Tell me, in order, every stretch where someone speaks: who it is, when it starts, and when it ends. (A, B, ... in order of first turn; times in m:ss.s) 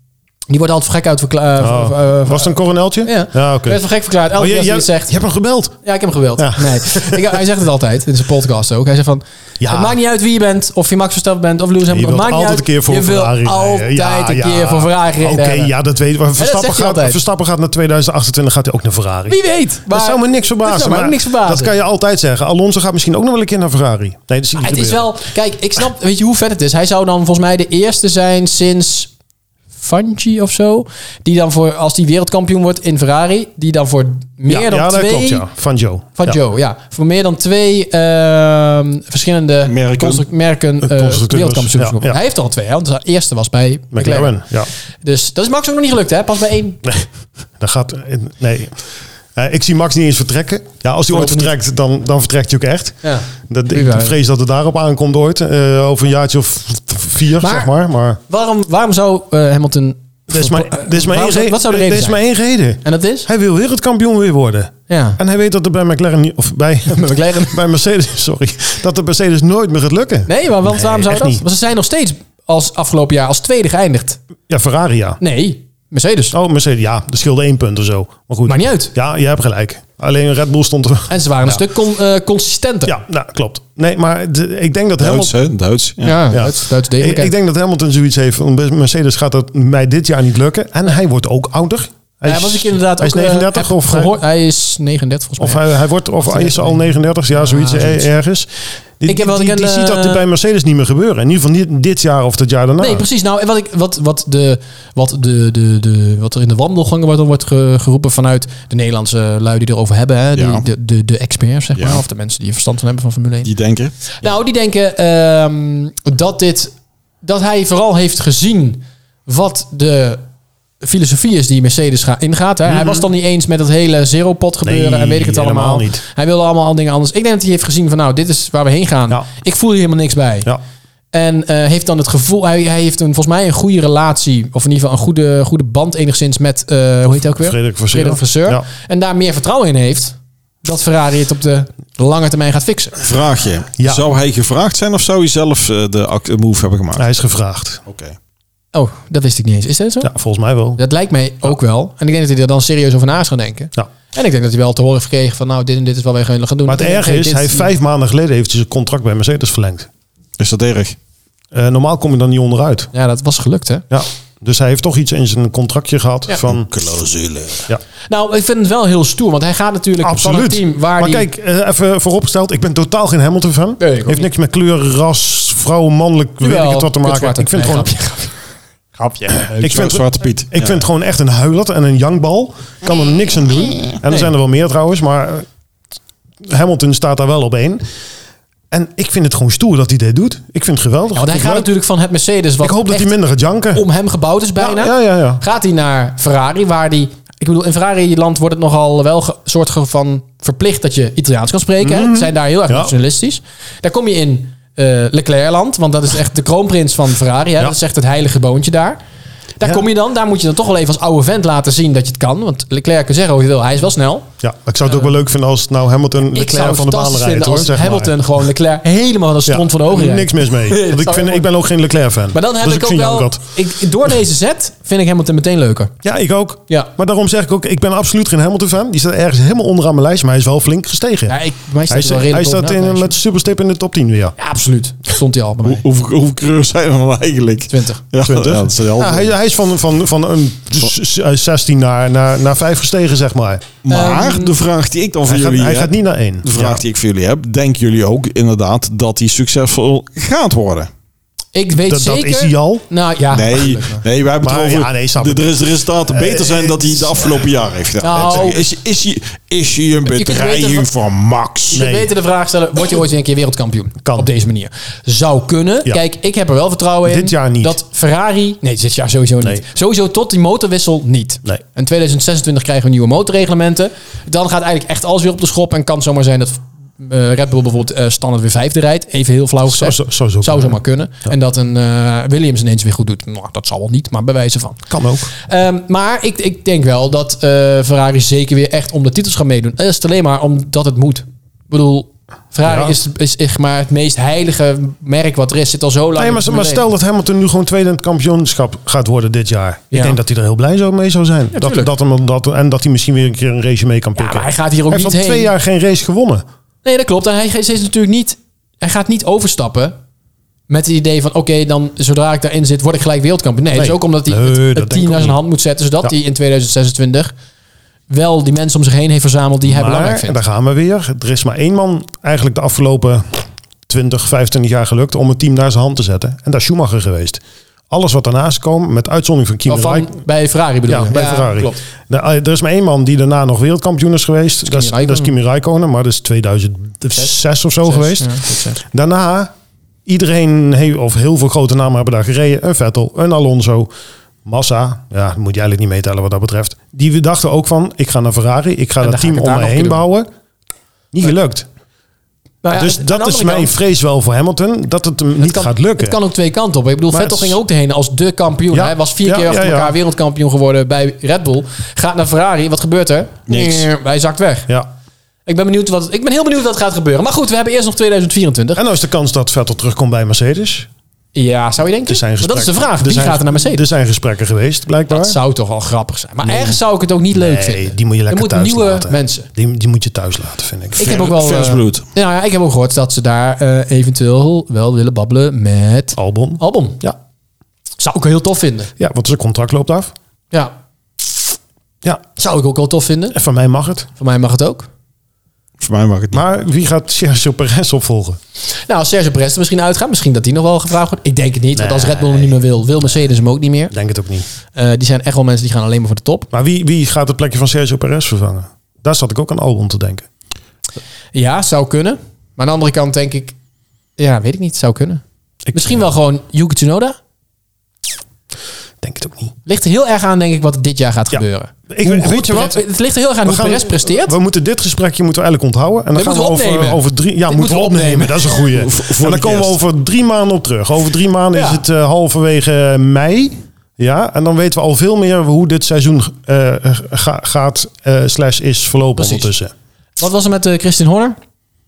0:00.5-0:05.2 A
0:01.6-0:05.8 B
0:05.8-0:15.7 A
0:06.4-0:07.4 B
0:09.6-0:10.0 B
0:11.9-0:19.4 B
0:16.4-0:17.2 A
0:19.3-0:21.7 A
0:19.9-0:25.1 B
0:24.5-0:29.1 A
0:29.8-0:35.4 A
0:34.5-0:36.4 B
0:36.2-0:44.4 A
0:39.6-0:40.2 C
0:40.8-0:42.2 B
0:43.9-0:44.7 B
0:45.0-0:46.8 A
0:47.6-0:48.8 B
0:49.3-0:58.2 B
0:51.1-0:51.5 A
0:53.0-0:54.1 A
0:57.4-0:57.7 A
0:58.3-1:02.2 A
1:00.3-1:11.4 B
1:02.8-1:03.3 A
1:04.9-1:05.2 A
1:06.9-1:07.6 A
1:10.3-1:14.2 A
1:14.5-1:15.2 B
1:15.2-1:16.3 A
1:16.3-1:21.6 B
1:18.4-1:18.9 A
1:21.1-1:23.0 A
1:22.8-1:25.3 B
1:25.0-1:26.2 C
1:26.0-1:27.3 A
1:26.3-1:34.1 B
1:32.2-1:35.6 A
1:35.4-1:38.5 B
1:36.2-1:38.1 A
1:39.0-1:43.1 B
1:39.1-1:40.2 A
1:42.8-1:53.5 A
1:50.3-1:50.6 C
1:51.8-1:52.0 C
1:53.4-1:53.9 C
1:54.2-2:00.2 A
2:00.8-2:10.5 A
2:02.6-2:03.1 B
2:04.6-2:06.0 B
2:11.1-2:23.0 A
2:17.2-2:18.6 B
2:23.0-2:27.0 C
2:23.8-2:24.0 B
2:27.0-2:27.8 B
2:27.9-2:28.2 C
2:28.7-2:30.1 A
2:30.0-2:30.8 B
2:30.8-2:37.7 A
2:36.6-2:39.9 B
2:40.4-2:41.0 C
2:41.5-2:42.9 B
2:42.9-2:43.8 A
2:43.9-2:46.7 B
2:46.4-2:47.7 C
2:48.1-2:51.3 A
2:50.0-2:57.9 B
2:53.8-2:54.3 A
2:56.4-2:58.3 A
2:59.0-2:59.9 A
2:59.5-3:05.4 B
2:59.6-3:00.8 C
3:04.1-3:04.3 A
3:06.4-3:07.8 B
3:08.7-3:11.7 B
3:11.1-3:13.2 A
3:12.6-3:13.8 B
3:13.7-3:29.0 A
3:14.6-3:15.4 B
3:21.8-3:22.9 B
3:29.6-3:34.3 A
3:34.4-3:38.1 B
3:34.8-3:35.1 A
3:36.3-3:41.4 A
3:39.4-3:43.4 B
3:42.3-3:45.9 A
3:46.0-3:51.4 B
3:51.3-3:53.2 A
3:51.9-3:54.3 B
3:54.4-3:55.8 A
3:55.6-3:59.3 C
3:57.7-3:58.0 A
3:58.2-4:03.6 B
4:03.8-4:10.9 C
4:03.9-4:04.6 A
4:05.3-4:06.8 B
4:11.5-4:14.0 A
4:11.9-4:12.8 B
4:13.3-4:21.8 C
4:14.4-4:15.5 B
4:16.1-4:16.9 B
4:18.0-4:18.7 A
4:20.0-4:20.9 A
4:21.7-4:44.8 A
4:21.7-4:22.1 B
4:24.0-4:24.3 B
4:27.0-4:27.8 B
4:39.7-4:40.8 B
4:44.9-4:45.3 B
4:45.4-4:56.9 A
4:52.6-4:52.9 B
4:56.2-5:06.4 B
4:59.9-5:00.2 A
5:01.5-5:01.9 A
5:04.2-5:05.5 A
5:06.8-5:10.0 A
5:10.7-5:17.3 A
5:13.7-5:15.4 B
5:18.1-5:20.4 A
5:19.6-5:30.1 B
5:29.7-5:31.8 A
5:30.9-5:39.5 B
5:34.6-5:35.3 A
5:37.8-5:38.8 A
5:40.0-5:43.9 B
5:44.4-5:50.3 B
5:49.0-5:50.0 A
5:51.1-5:51.7 B
5:52.6-5:53.7 A
5:52.7-5:56.2 B
5:55.4-6:04.7 A
5:57.1-5:57.6 B
5:58.7-5:59.9 B
6:03.5-6:03.8 C
6:05.4-6:08.8 A
6:08.8-6:10.9 B
6:11.3-6:13.8 A
6:12.0-6:15.4 B
6:15.1-6:19.5 A
6:16.4-6:16.8 B
6:17.3-6:21.1 B
6:21.0-6:22.0 C
6:21.0-6:27.0 A
6:26.2-6:27.2 B
6:28.0-6:28.9 A
6:29.0-6:30.1 B
6:32.4-6:33.4 A
6:33.3-6:34.1 B
6:34.2-6:34.9 A
6:35.8-6:36.4 C
6:36.3-6:38.4 B
6:38.8-6:43.9 A
6:41.7-6:42.5 B
6:43.9-6:44.4 B
6:44.7-6:46.5 A
6:46.5-6:50.3 B
6:51.3-6:53.5 A
6:54.2-6:55.2 A
6:55.7-6:56.0 B
6:55.7-6:57.2 A
6:59.0-6:59.5 B
6:59.6-7:04.4 A
7:01.3-7:02.8 B
7:03.4-7:19.7 B
7:06.1-7:08.6 A
7:08.7-7:09.8 C
7:11.5-7:11.8 A
7:19.2-7:19.5 A
7:20.2-7:21.4 A